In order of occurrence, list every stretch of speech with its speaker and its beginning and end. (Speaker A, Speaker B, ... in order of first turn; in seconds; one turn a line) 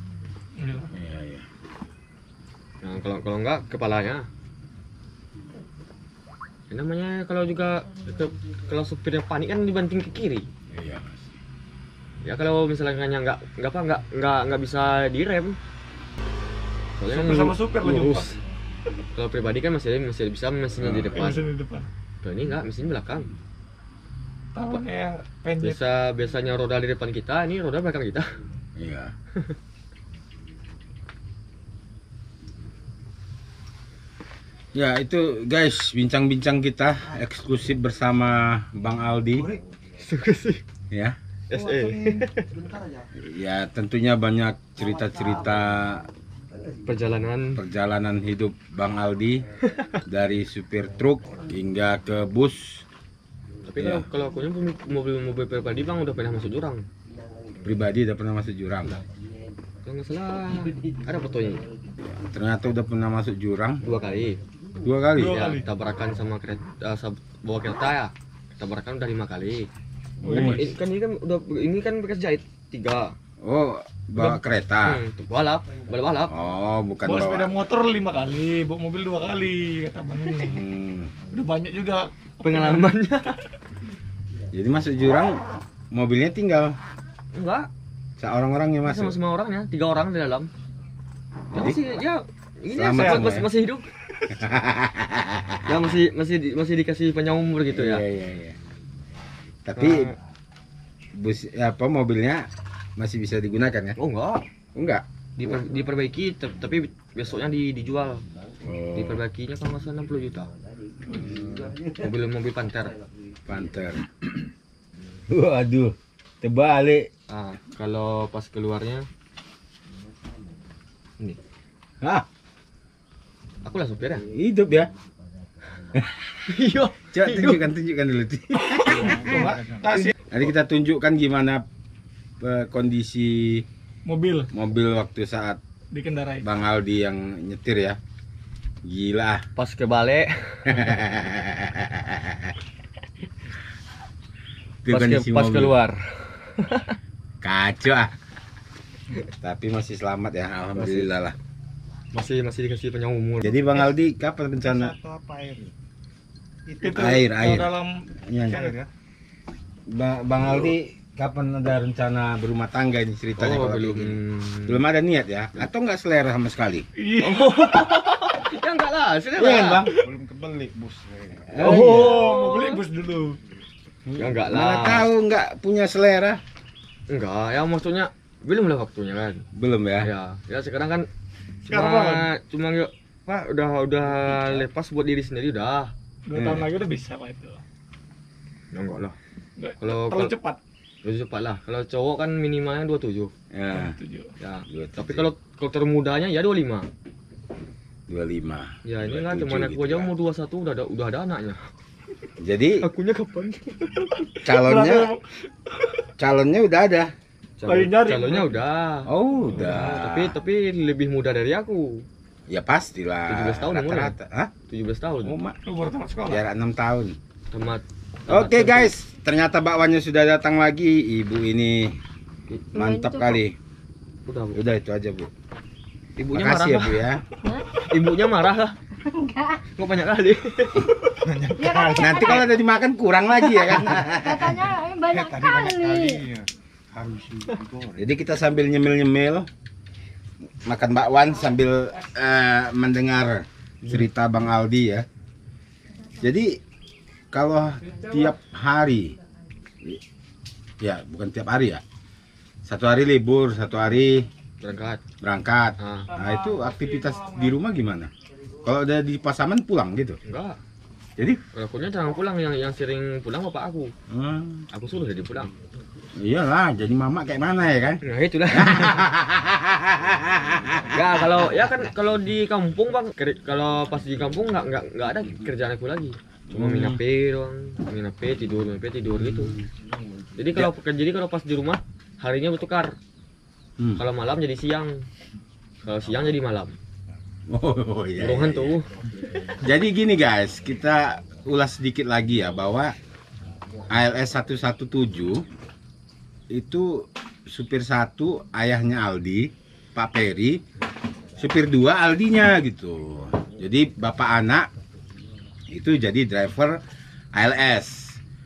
Speaker A: 0.6-0.9
Speaker B: 0.9-1.5
Speaker C: 2.8-4.3
Speaker C: 6.7-10.5
Speaker B: 10.7-11.3
Speaker C: 12.2-15.6
Speaker C: 17.0-18.4
Speaker A: 17.1-18.4
Speaker C: 19.1-21.4
Speaker B: 20.8-21.3
Speaker A: 21.1-21.9
Speaker C: 22.2-23.3
Speaker A: 24.6-25.8
Speaker C: 25.6-28.3
Speaker B: 28.8-29.1
Speaker B: 34.7-39.6
Speaker C: 40.0-40.6
Speaker B: 40.9-41.2
Speaker C: 41.5-42.5
Speaker B: 43.1-46.1
Speaker C: 46.9-47.6
Speaker B: 47.6-49.5
Speaker C: 49.6-50.0
Speaker B: 50.1-52.9
Speaker C: 53.7-56.8
Speaker B: 53.8-54.1
Speaker B: 57.6-59.0
Speaker C: 59.9-61.6
Speaker B: 62.1-63.8
Speaker C: 63.8-64.4
Speaker B: 64.8-65.5
Speaker A: 65.2-65.6
Speaker C: 65.2-69.7
Speaker A: 70.2-70.7
Speaker B: 70.2-70.7
Speaker C: 70.3-73.2
Speaker B: 73.4-75.0
Speaker C: 74.2-76.3
Speaker B: 76.3-77.5
Speaker A: 77.0-80.6
Speaker B: 80.5-81.1
Speaker A: 81.3-82.9
Speaker C: 82.4-83.4
Speaker B: 84.5-85.4
Speaker B: 85.9-86.8
Speaker C: 87.3-87.7
Speaker B: 88.2-89.2
Speaker C: 88.8-90.5
Speaker C: 91.5-94.3
Speaker B: 91.5-91.8
Speaker B: 92.7-93.5
Speaker A: 93.0-93.3
Speaker B: 94.3-95.7
Speaker C: 95.7-98.0
Speaker B: 97.7-98.6
Speaker B: 99.7-100.1
Speaker C: 99.8-100.2
Speaker B: 101.2-104.0
Speaker C: 104.0-104.4
Speaker B: 104.8-105.0
Speaker C: 105.4-108.2
Speaker B: 108.6-109.2
Speaker C: 108.9-110.5
Speaker B: 111.1-111.7
Speaker C: 112.0-113.0
Speaker B: 113.5-114.1
Speaker B: 115.3-117.1
Speaker C: 117.3-119.1
Speaker B: 122.0-122.3
Speaker C: 123.6-124.2
Speaker B: 124.3-124.9
Speaker C: 126.5-127.6
Speaker B: 127.1-129.2
Speaker A: 128.8-130.2
Speaker D: 128.8-130.2
Speaker B: 130.3-131.6
Speaker B: 132.4-133.7
Speaker A: 134.1-134.5
Speaker B: 134.5-135.6
Speaker A: 135.9-136.4
Speaker B: 136.4-138.0
Speaker B: 138.8-139.4
Speaker C: 139.6-140.9
Speaker B: 140.7-142.6
Speaker B: 144.8-145.8
Speaker C: 144.9-147.0
Speaker B: 147.4-148.1
Speaker B: 149.4-151.4
Speaker C: 150.8-151.1
Speaker C: 152.1-153.8
Speaker B: 153.4-154.9
Speaker D: 154.6-155.7
Speaker D: 156.7-157.2
Speaker A: 156.8-158.8
Speaker B: 157.0-157.7
Speaker B: 158.3-158.6
Speaker D: 158.5-158.9
Speaker B: 159.9-166.9
Speaker C: 163.4-164.8
Speaker A: 167.0-168.0
Speaker C: 167.2-170.0
Speaker B: 169.4-169.9
Speaker D: 169.9-171.6
Speaker B: 171.5-172.2
Speaker C: 171.6-172.8
Speaker A: 171.6-173.4
Speaker B: 174.1-176.4
Speaker C: 174.2-175.1
Speaker C: 177.1-179.4
Speaker B: 179.6-180.1
Speaker C: 180.0-181.1
Speaker C: 181.7-185.9
Speaker A: 181.7-182.3
Speaker A: 186.3-187.6
Speaker B: 186.3-186.7
Speaker C: 188.7-189.2
Speaker A: 189.6-190.6
Speaker C: 189.8-190.3
Speaker C: 191.0-193.3
Speaker B: 193.5-194.0
Speaker A: 193.7-194.3
Speaker C: 194.4-196.9
Speaker B: 194.7-195.3
Speaker B: 198.1-200.1
Speaker C: 198.8-201.7
Speaker B: 202.4-202.8
Speaker C: 202.8-204.3
Speaker A: 204.3-206.1
Speaker B: 204.4-205.1
Speaker B: 206.2-207.1
Speaker C: 207.6-212.1
Speaker A: 207.7-208.6
Speaker B: 209.1-210.4
Speaker B: 212.5-214.5
Speaker C: 213.3-214.1
Speaker C: 214.7-215.3
Speaker B: 215.2-215.6
Speaker A: 215.7-216.4
Speaker B: 216.3-217.2
Speaker C: 217.5-218.9
Speaker B: 218.3-221.9
Speaker E: 222.7-223.4
Speaker B: 222.7-223.6
Speaker C: 224.3-224.6
Speaker B: 224.5-225.3
Speaker C: 226.2-227.0
Speaker B: 226.3-227.2
Speaker C: 227.7-228.8
Speaker E: 229.1-229.6
Speaker C: 229.7-230.9
Speaker D: 231.2-232.4
Speaker E: 231.6-232.4
Speaker B: 231.9-234.7
Speaker D: 233.6-238.1
Speaker E: 234.1-236.2
Speaker B: 238.0-239.5
Speaker B: 240.7-245.1
Speaker B: 246.2-246.6
Speaker B: 247.3-249.2
Speaker B: 250.8-251.8
Speaker B: 252.7-254.3
Speaker C: 254.6-255.0
Speaker B: 255.2-258.1
Speaker C: 255.8-256.1
Speaker A: 256.1-257.6
Speaker B: 258.6-260.2
Speaker C: 260.3-260.6
Speaker C: 261.5-263.9
Speaker B: 264.1-264.7
Speaker C: 264.7-265.5
Speaker B: 266.2-271.7
Speaker C: 268.0-269.1
Speaker C: 270.9-279.6
Speaker B: 276.5-277.0
Speaker B: 279.2-279.7
Speaker C: 280.4-282.9
Speaker B: 283.8-284.0
Speaker C: 284.0-285.1
Speaker C: 285.8-286.8
Speaker B: 287.5-288.8
Speaker C: 288.2-288.9
Speaker B: 289.6-292.9
Speaker B: 293.9-295.4
Speaker B: 296.5-300.6
Speaker B: 301.4-304.7
Speaker B: 305.7-306.8
Speaker B: 307.4-308.2